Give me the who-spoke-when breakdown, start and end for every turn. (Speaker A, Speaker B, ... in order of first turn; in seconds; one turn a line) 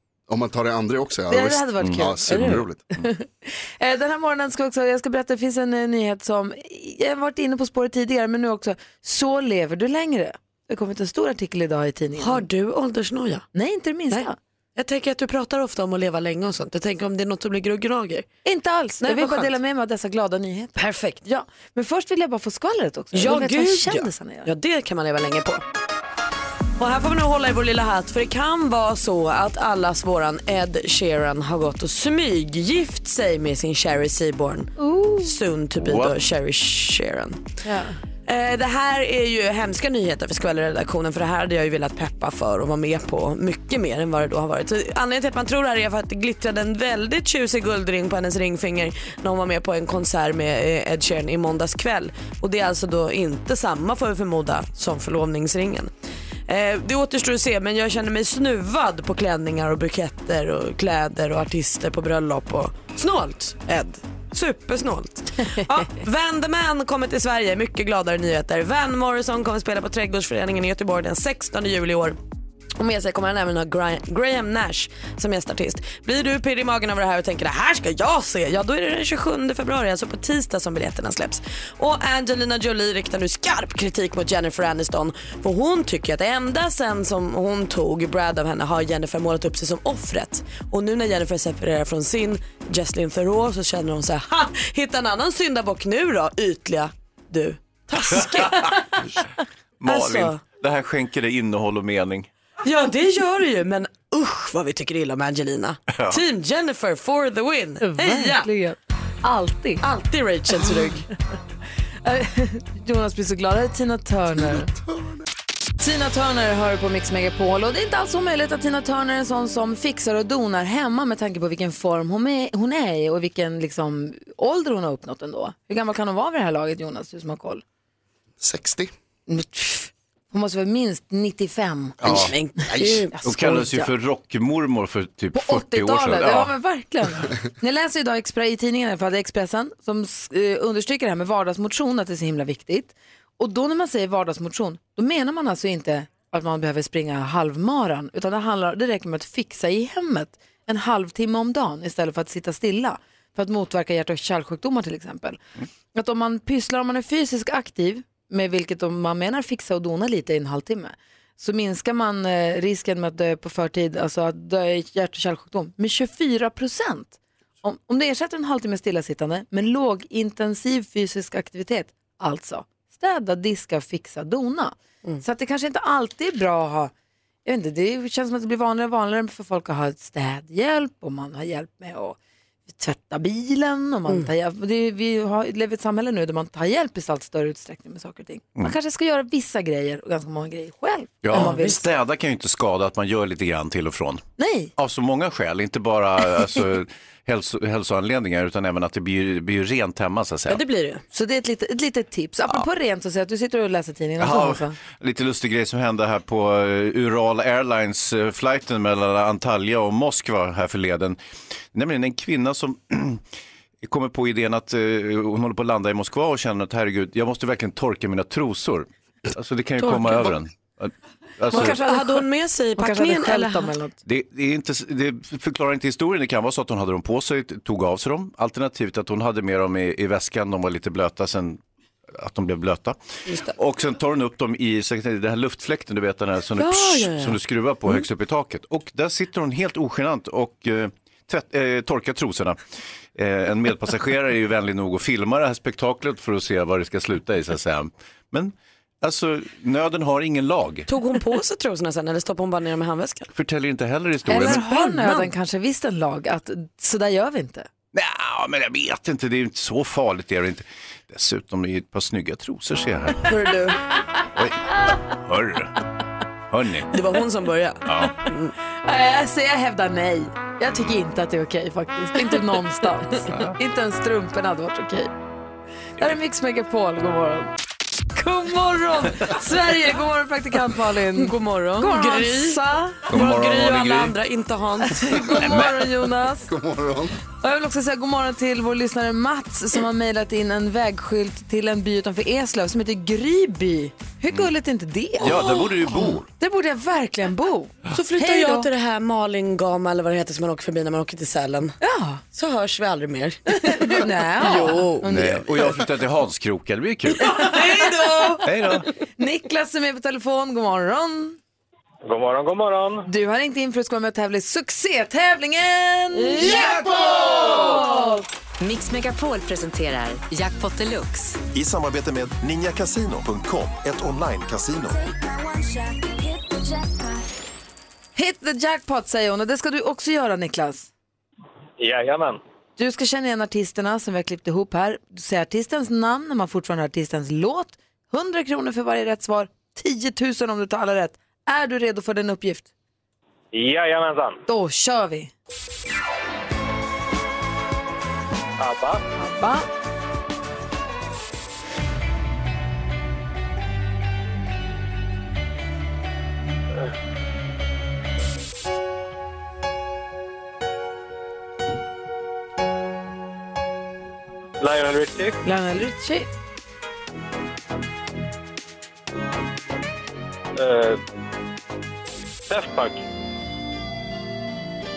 Speaker A: 0.3-2.9
Speaker B: 1.3-12.5
Speaker C: 1.8-2.5
Speaker D: 2.3-2.6
Speaker D: 12.2-13.4
Speaker B: 13.5-14.4
Speaker D: 14.1-18.3
Speaker B: 18.4-24.5
Speaker D: 19.0-19.6
Speaker D: 20.8-21.2
Speaker D: 23.1-25.6
Speaker D: 26.8-37.4
Speaker B: 34.8-35.3
Speaker C: 35.8-36.2
Speaker B: 37.6-37.9
Speaker D: 38.3-55.9
Speaker D: 56.5-72.2
Speaker D: 72.8-98.8
Speaker C: 99.8-102.3
Speaker D: 99.8-100.4
Speaker D: 102.6-108.5
Speaker C: 105.9-106.2
Speaker B: 107.8-109.8
Speaker D: 109.8-111.1
Speaker B: 112.0-114.7
Speaker B: 115.8-127.6
Speaker A: 128.4-128.9
Speaker B: 129.3-132.1
Speaker C: 132.0-132.3
Speaker D: 132.1-133.2
Speaker A: 132.8-133.0
Speaker B: 133.2-133.9
Speaker C: 133.2-136.6
Speaker B: 135.3-155.4
Speaker B: 155.9-176.9
Speaker B: 177.4-182.2
Speaker B: 182.7-191.8
Speaker C: 191.2-194.2
Speaker D: 191.3-191.8
Speaker B: 194.4-194.7
Speaker C: 194.8-200.6
Speaker D: 200.5-201.0
Speaker B: 201.1-204.8
Speaker C: 204.2-211.2
Speaker C: 211.7-213.2
Speaker C: 213.8-221.8
Speaker D: 219.8-220.4
Speaker D: 221.5-223.7
Speaker B: 221.5-222.2
Speaker B: 222.8-224.0
Speaker C: 224.1-231.6
Speaker C: 232.2-233.0
Speaker D: 233.3-233.5
Speaker C: 233.5-242.6
Speaker D: 236.6-238.1
Speaker C: 243.2-250.9
Speaker D: 250.9-253.3
Speaker C: 253.3-254.7
Speaker B: 254.3-257.7
Speaker D: 254.3-255.3
Speaker C: 257.9-263.3
Speaker D: 263.2-263.8
Speaker C: 264.4-265.7
Speaker C: 266.5-266.9
Speaker D: 266.9-268.5
Speaker C: 267.9-268.2
Speaker B: 268.9-275.1
Speaker B: 276.0-277.5
Speaker B: 278.2-283.1
Speaker D: 278.7-278.9
Speaker D: 281.1-285.6
Speaker C: 283.1-284.1
Speaker B: 284.9-286.5
Speaker C: 285.4-285.8
Speaker A: 286.5-287.1
Speaker B: 287.4-298.7
Speaker C: 295.2-296.3
Speaker D: 295.2-295.6
Speaker D: 297.9-301.8
Speaker B: 301.8-302.2
Speaker D: 302.3-305.2
Speaker B: 303.6-305.8
Speaker C: 305.1-307.3
Speaker D: 307.2-308.5
Speaker B: 307.5-308.3
Speaker C: 308.4-308.9
Speaker B: 309.2-311.4
Speaker E: 312.0-313.1
Speaker B: 313.1-318.2
Speaker D: 316.2-317.8
Speaker F: 318.6-321.4
Speaker G: 321.6-325.0
Speaker F: 324.9-327.2
Speaker B: 328.2-330.9
Speaker E: 331.8-332.4
Speaker B: 332.8-342.7
Speaker E: 343.5-344.4
Speaker B: 344.5-345.3
Speaker E: 348.6-349.0
Speaker B: 349.2-349.7
Speaker E: 364.6-365.4
Speaker B: 365.4-366.3
Speaker E: 370.6-371.0
Speaker E: 372.5-373.0